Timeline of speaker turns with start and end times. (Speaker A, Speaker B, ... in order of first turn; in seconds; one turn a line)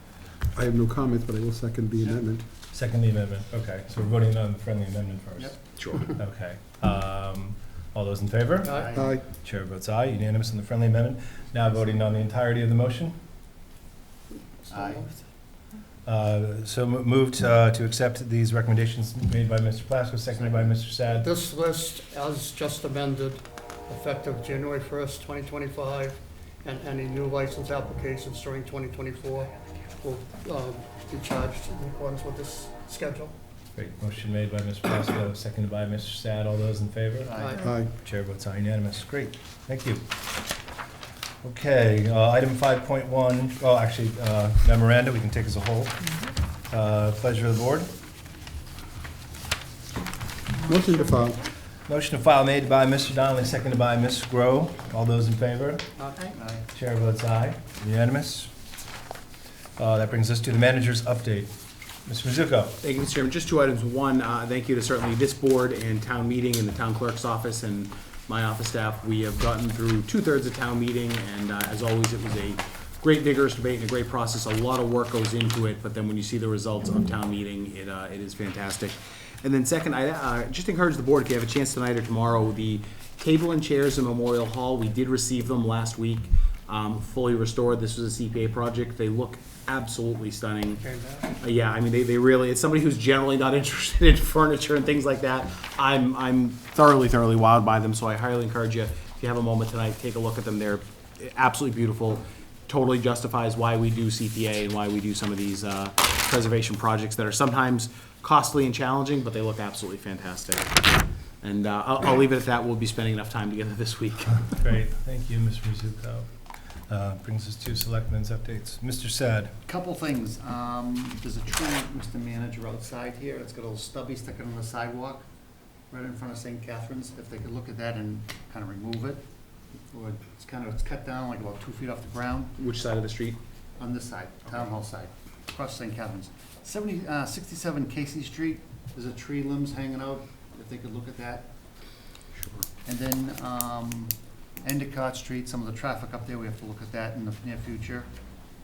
Speaker A: 0.5-2.4
Speaker B: 2.7-13.2
Speaker C: 5.4-6.2
Speaker D: 5.8-6.0
Speaker E: 8.6-9.0
Speaker C: 8.7-9.1
Speaker A: 9.0-9.2
Speaker E: 14.6-15.2
Speaker C: 14.7-15.1
Speaker B: 16.1-21.3
Speaker C: 20.3-20.8
Speaker E: 21.1-33.3
Speaker C: 29.3-29.8
Speaker B: 33.8-40.1
Speaker C: 37.2-37.7
Speaker E: 37.3-37.7
Speaker A: 37.6-37.9
Speaker B: 41.4-46.1
Speaker B: 46.7-47.9
Speaker A: 50.7-51.4
Speaker B: 51.9-55.9
Speaker E: 56.0-56.3
Speaker C: 56.3-56.7
Speaker B: 56.7-58.5
Speaker B: 59.8-61.5
Speaker B: 62.0-62.8
Speaker D: 62.8-90.8
Speaker E: 90.7-91.4
Speaker D: 91.4-114.5
Speaker B: 114.6-116.3
Speaker B: 116.9-119.5
Speaker C: 119.7-125.2
Speaker C: 125.9-129.2
Speaker C: 129.9-132.6
Speaker D: 132.6-133.4
Speaker C: 133.8-141.5
Speaker D: 142.3-142.7
Speaker C: 142.8-148.2